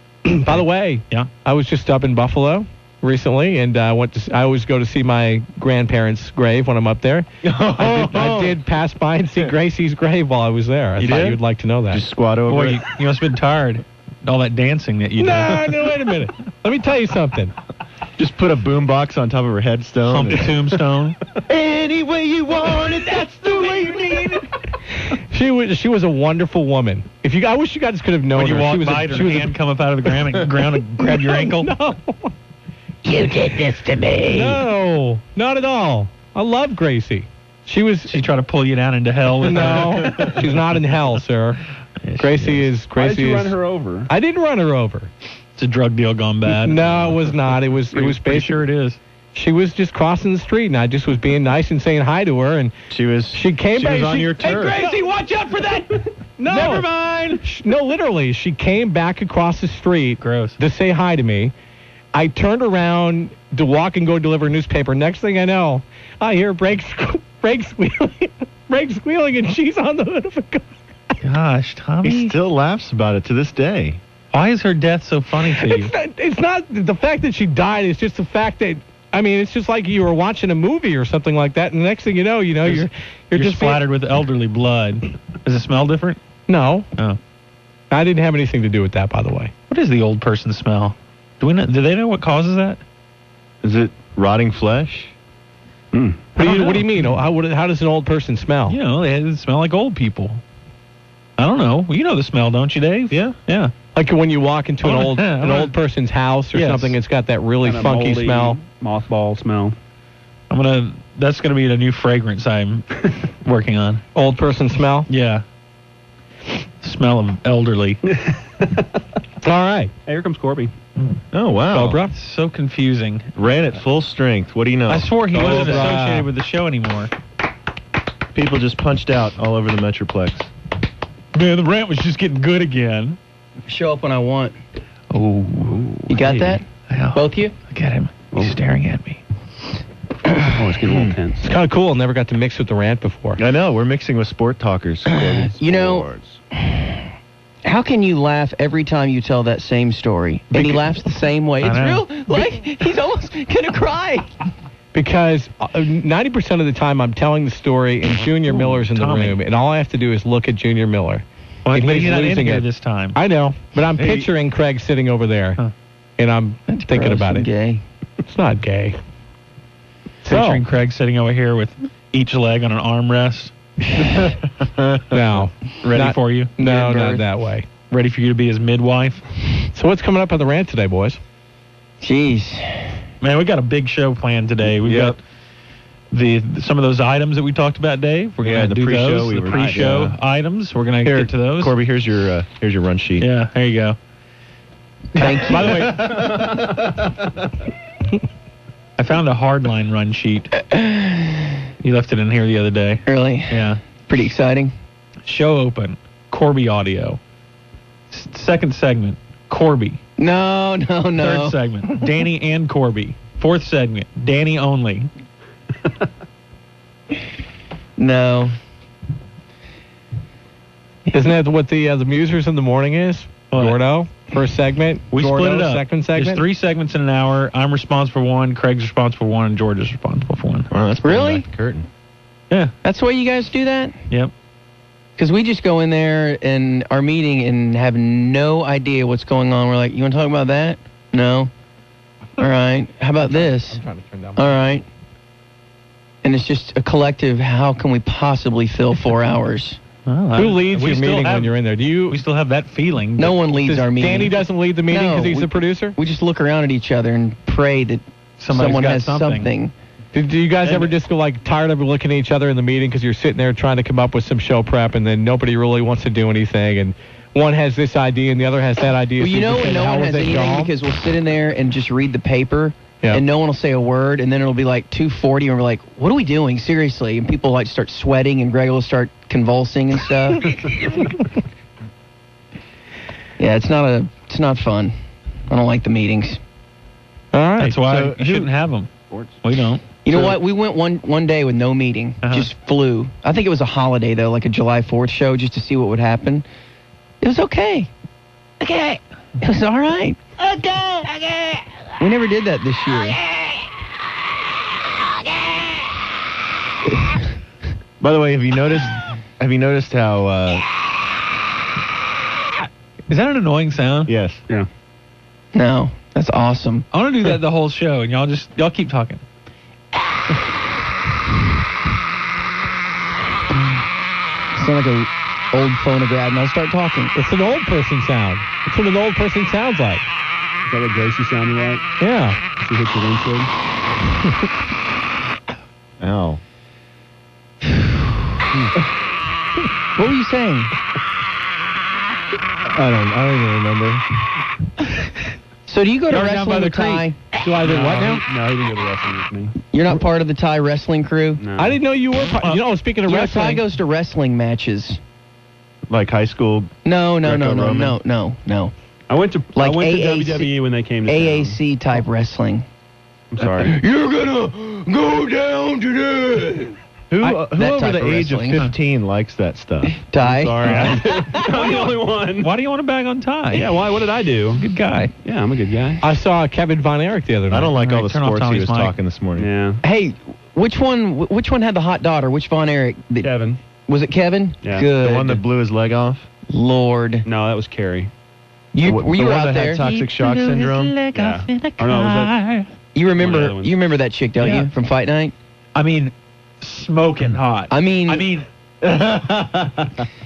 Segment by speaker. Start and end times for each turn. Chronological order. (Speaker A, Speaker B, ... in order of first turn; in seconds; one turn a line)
Speaker A: 0.2-12.0
Speaker B: 7.4-8.6
Speaker C: 11.0-11.3
Speaker B: 11.9-12.8
Speaker C: 12.5-15.9
Speaker A: 15.2-17.5
Speaker B: 18.2-20.6
Speaker C: 20.1-21.2
Speaker B: 21.5-24.3
Speaker A: 25.3-29.5
Speaker C: 28.4-31.7
Speaker A: 31.0-32.3
Speaker A: 34.3-38.2
Speaker C: 38.1-41.1
Speaker A: 39.4-41.6
Speaker C: 42.0-42.7
Speaker A: 42.2-43.6
Speaker D: 43.0-44.1
Speaker A: 44.1-45.1
Speaker C: 45.6-47.3
Speaker A: 46.5-48.6
Speaker C: 47.9-49.0
Speaker A: 49.3-52.7
Speaker B: 52.9-54.8
Speaker A: 53.3-55.0
Speaker D: 54.8-55.8
Speaker D: 56.4-57.2
Speaker A: 56.5-56.9
Speaker C: 56.5-57.3
Speaker A: 57.5-61.5
Speaker C: 60.2-60.6
Speaker A: 62.1-70.7
Speaker C: 71.2-72.4
Speaker B: 72.0-74.0
Speaker C: 74.3-75.9
Speaker A: 75.5-83.8
Speaker C: 82.7-86.2
Speaker A: 86.5-86.8
Speaker A: 87.9-89.5
Speaker C: 89.7-92.8
Speaker B: 93.6-95.1
Speaker D: 95.9-96.2
Speaker A: 96.4-98.8
Speaker C: 96.4-96.9
Speaker C: 98.7-100.4
Speaker C: 101.4-103.7
Speaker B: 103.1-103.3
Speaker A: 103.9-108.6
Speaker C: 104.8-105.7
Speaker D: 106.5-106.9
Speaker D: 107.6-109.7
Speaker C: 110.5-112.8
Speaker C: 113.4-114.0
Speaker A: 114.1-115.1
Speaker C: 115.1-115.4
Speaker C: 116.8-118.0
Speaker A: 119.4-119.9
Speaker D: 120.0-120.7
Speaker B: 121.3-122.0
Speaker A: 121.7-122.1
Speaker C: 122.1-123.3
Speaker B: 123.3-126.0
Speaker C: 124.9-127.1
Speaker A: 125.3-126.3
Speaker B: 128.3-130.5
Speaker C: 131.3-133.2
Speaker E: 133.7-134.6
Speaker C: 135.1-139.2
Speaker E: 136.1-136.6
Speaker D: 136.2-136.5
Speaker E: 137.1-137.5
Speaker D: 140.5-141.5
Speaker B: 140.8-141.1
Speaker A: 141.4-143.4
Speaker B: 143.4-146.3
Speaker E: 145.1-147.0
Speaker E: 147.6-154.3
Speaker A: 150.5-150.9
Speaker C: 151.6-152.1
Speaker A: 154.9-165.6
Speaker C: 158.5-159.4
Speaker C: 161.7-163.2
Speaker B: 164.0-164.3
Speaker A: 166.2-167.5
Speaker E: 166.7-167.8
Speaker A: 168.3-169.0
Speaker A: 170.2-170.6
Speaker C: 170.2-173.5
Speaker B: 174.0-175.2
Speaker A: 175.1-177.7
Speaker C: 175.8-176.5
Speaker E: 176.6-177.2
Speaker C: 177.9-179.2
Speaker A: 179.7-181.2
Speaker E: 182.0-183.0
Speaker C: 183.2-185.2
Speaker B: 184.8-185.2
Speaker C: 186.1-191.7
Speaker B: 188.4-190.2
Speaker D: 189.5-189.9
Speaker B: 191.1-193.3
Speaker C: 193.2-194.0
Speaker E: 195.2-195.9
Speaker C: 195.2-196.2
Speaker B: 195.5-196.5
Speaker D: 195.7-196.6
Speaker C: 199.0-200.5
Speaker E: 200.6-201.6
Speaker C: 201.8-203.8
Speaker E: 203.1-204.7
Speaker C: 205.2-207.2
Speaker C: 208.1-210.0
Speaker E: 210.2-211.6
Speaker C: 211.2-215.1
Speaker E: 218.0-218.6
Speaker A: 221.1-226.4
Speaker C: 223.5-223.8
Speaker C: 225.1-230.7
Speaker B: 230.7-231.9
Speaker E: 231.0-231.4
Speaker E: 232.8-233.9
Speaker E: 235.2-241.5
Speaker E: 242.4-243.8
Speaker A: 243.2-244.4
Speaker E: 244.3-244.8
Speaker E: 246.2-249.8
Speaker C: 250.1-251.5
Speaker A: 250.3-252.2
Speaker C: 252.1-253.4
Speaker E: 253.2-259.7
Speaker A: 253.5-256.0
Speaker C: 258.4-259.5
Speaker A: 260.1-270.7
Speaker E: 269.2-280.8
Speaker E: 283.4-284.9
Speaker E: 285.5-286.4
Speaker A: 287.3-287.7
Speaker C: 287.6-288.9
Speaker B: 287.7-288.5
Speaker C: 289.4-289.8
Speaker E: 290.0-296.4
Speaker C: 292.2-292.5
Speaker E: 297.2-297.9
Speaker E: 299.4-300.2
Speaker E: 302.0-303.2
Speaker E: 306.9-307.3
Speaker B: 308.0-310.6
Speaker C: 313.1-314.1
Speaker B: 314.1-314.4
Speaker E: 315.5-316.8
Speaker C: 316.9-319.2
Speaker E: 324.5-327.1
Speaker A: 327.1-330.0
Speaker D: 330.6-331.8
Speaker A: 332.0-332.4
Speaker D: 332.6-333.5
Speaker B: 336.0-336.4
Speaker E: 339.9-340.7
Speaker B: 342.7-344.0
Speaker E: 345.7-347.1
Speaker C: 346.1-347.0
Speaker D: 346.3-346.7
Speaker A: 347.4-348.2
Speaker D: 347.6-349.6
Speaker E: 349.7-351.4
Speaker D: 351.4-351.8
Speaker A: 351.6-353.6
Speaker E: 353.1-355.0
Speaker B: 355.9-356.7
Speaker E: 356.8-358.7
Speaker B: 357.2-358.0
Speaker D: 359.1-361.6
Speaker E: 359.6-360.5
Speaker E: 361.1-362.6
Speaker D: 363.3-363.8
Speaker E: 363.6-366.7
Speaker B: 367.1-371.3
Speaker E: 367.4-368.6
Speaker E: 370.1-371.7
Speaker D: 370.6-372.5
Speaker C: 372.4-373.9
Speaker D: 373.5-374.6
Speaker C: 374.5-375.1
Speaker D: 375.2-376.0
Speaker A: 376.0-377.7
Speaker B: 377.5-379.5
Speaker C: 377.8-378.9
Speaker D: 379.4-379.8
Speaker E: 379.8-383.3
Speaker D: 383.2-383.6
Speaker E: 383.9-385.4
Speaker D: 384.6-384.9
Speaker B: 385.0-386.2
Speaker E: 386.5-387.2
Speaker D: 387.2-388.1
Speaker E: 388.7-389.8
Speaker B: 388.8-390.9
Speaker C: 389.8-392.7
Speaker D: 391.1-392.3
Speaker E: 392.9-395.3
Speaker D: 393.2-393.8
Speaker C: 394.4-394.7
Speaker C: 395.7-398.4
Speaker E: 397.7-398.3
Speaker B: 398.8-399.9